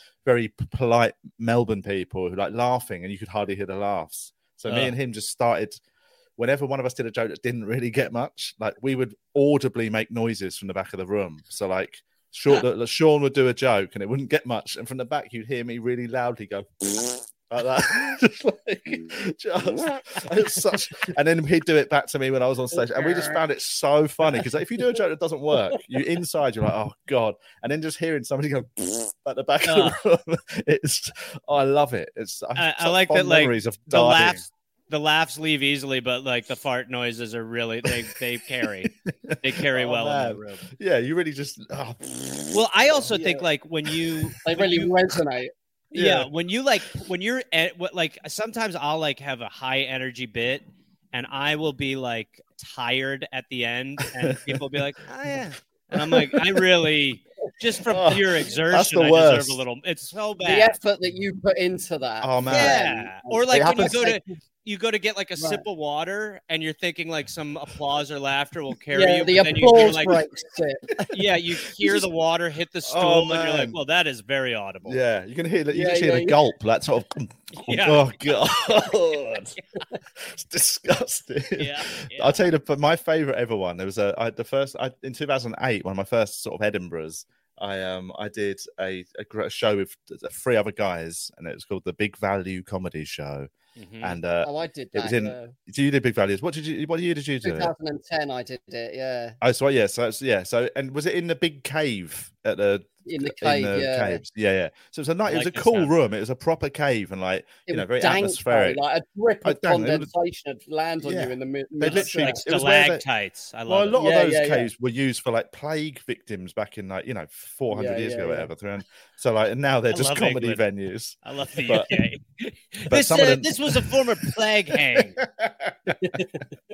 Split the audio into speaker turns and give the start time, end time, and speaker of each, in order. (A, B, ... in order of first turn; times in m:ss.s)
0:00.2-0:05.8 A
0:04.7-0:04.9 B
0:06.4-0:34.4 A
0:22.8-0:23.4 C
0:29.6-0:30.0 B
0:32.6-0:40.7 B
0:38.8-0:42.7 A
0:42.5-0:44.9 B
0:43.1-0:43.4 C
0:44.4-0:45.5 C
0:45.9-0:46.3 A
0:45.9-1:00.8 B
0:54.2-0:54.6 A
0:55.9-0:56.6 A
0:57.9-0:59.6 A
1:00.4-1:04.2 C
1:02.2-1:02.8 A
1:02.5-1:10.2 B
1:03.5-1:04.0 A
1:05.4-1:05.6 C
1:08.9-1:11.1 C
1:11.1-1:15.0 B
1:12.9-1:13.8 A
1:14.9-1:19.6 A
1:15.7-1:16.4 C
1:17.6-1:18.3 B
1:20.2-1:33.5 A
1:21.6-1:22.4 B
1:33.8-1:34.2 B
1:34.0-1:37.7 A
1:34.4-1:35.5 C
1:37.4-1:39.4 C
1:39.4-1:48.8 A
1:43.1-1:44.2 C
1:45.3-1:45.9 B
1:47.7-1:52.4 C
1:49.4-1:50.1 A
1:51.0-1:53.0 A
1:51.9-1:54.0 B
1:53.7-2:02.0 A
1:54.0-1:54.7 C
1:57.7-1:58.5 C
1:59.9-2:00.6 B
2:01.2-2:05.2 B
2:02.9-2:04.0 A
2:04.8-2:06.2 A
2:06.0-2:06.4 C